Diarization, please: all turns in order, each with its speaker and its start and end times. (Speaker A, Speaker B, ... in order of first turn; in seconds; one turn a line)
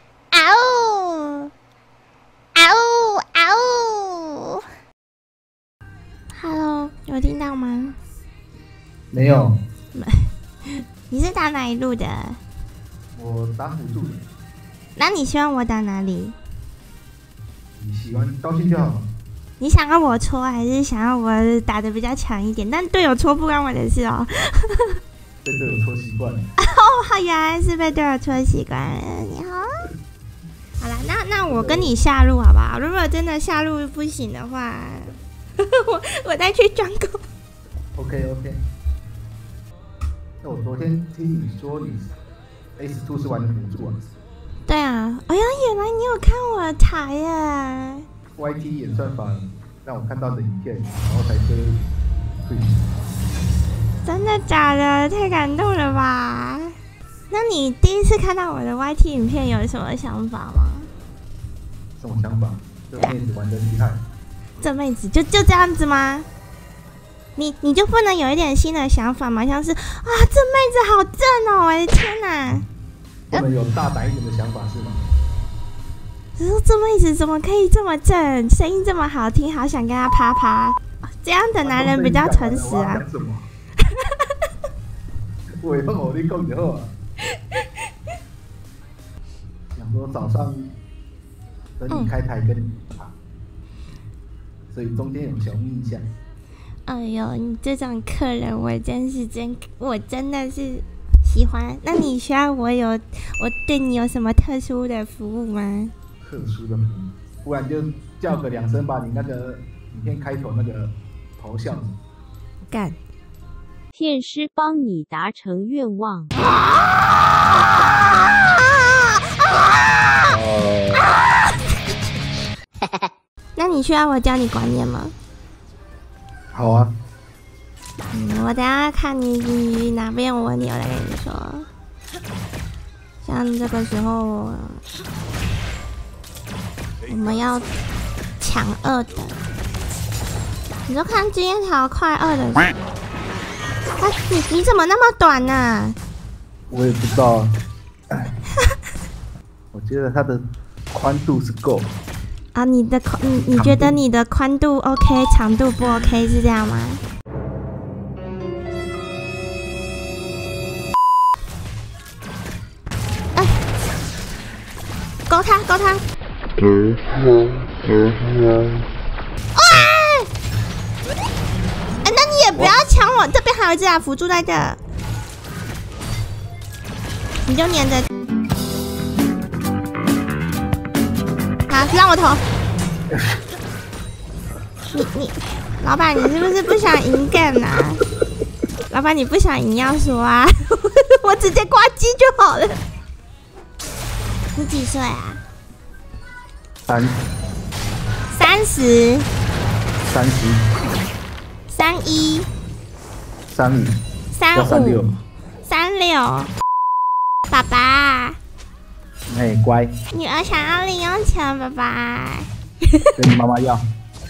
Speaker A: 0.3-1.5
Speaker A: 2.5-4.6
Speaker A: 6.3-8.0
Speaker B: 9.1-9.6
Speaker A: 9.9-12.4
Speaker B: 13.1-14.2
Speaker A: 14.9-16.3
Speaker B: 17.8-19.1
Speaker A: 19.6-25.0
Speaker B: 25.4-26.4
Speaker A: 26.6-29.9
Speaker A: 30.8-37.2
Speaker B: 31.5-31.9
Speaker B: 37.9-38.6
Speaker B: 40.4-42.1
Speaker B: 42.8-44.0
Speaker A: 44.7-48.0
Speaker B: 48.4-51.8
Speaker B: 52.4-52.8
Speaker A: 54.0-56.7
Speaker A: 57.3-60.9
Speaker B: 62.0-64.0
Speaker A: 64.6-66.2
Speaker A: 67.3-72.6
Speaker B: 73.3-75.0
Speaker A: 76.4-83.0
Speaker B: 81.6-83.5
Speaker A: 83.9-84.2
Speaker B: 85.6-86.9
Speaker B: 89.7-90.7
Speaker B: 91.8-93.1
Speaker B: 94.7-96.0
Speaker A: 96.9-105.9
Speaker B: 106.2-112.0
Speaker A: 112.7-113.0
Speaker C: 113.9-116.3
Speaker A: 118.4-120.3
Speaker A: 123.5-125.1
Speaker B: 126.5-126.9
Speaker A: 128.1-131.7
Speaker A: 133.2-134.8
Speaker A: 137.1-137.7
Speaker A: 138.4-139.4
Speaker A: 140.9-142.7
Speaker A: 144.0-146.0
Speaker B: 146.7-147.5
Speaker B: 149.7-151.9
Speaker A: 152.5-157.0
Speaker B: 153.5-154.0
Speaker A: 165.3-166.0
Speaker A: 169.5-170.3
Speaker A: 172.0-174.8
Speaker A: 177.4-178.1
Speaker A: 181.7-182.4
Speaker A: 184.9-188.0
Speaker A: 188.9-192.8
Speaker A: 194.6-195.4
Speaker B: 196.9-197.2
Speaker A: 198.3-199.3
Speaker B: 200.1-200.7
Speaker A: 201.7-202.5
Speaker B: 203.5-204.0
Speaker A: 204.3-205.1
Speaker B: 204.5-205.2
Speaker A: 205.6-206.5
Speaker A: 207.5-208.4
Speaker B: 209.3-209.9
Speaker A: 210.1-213.1
Speaker B: 213.2-213.8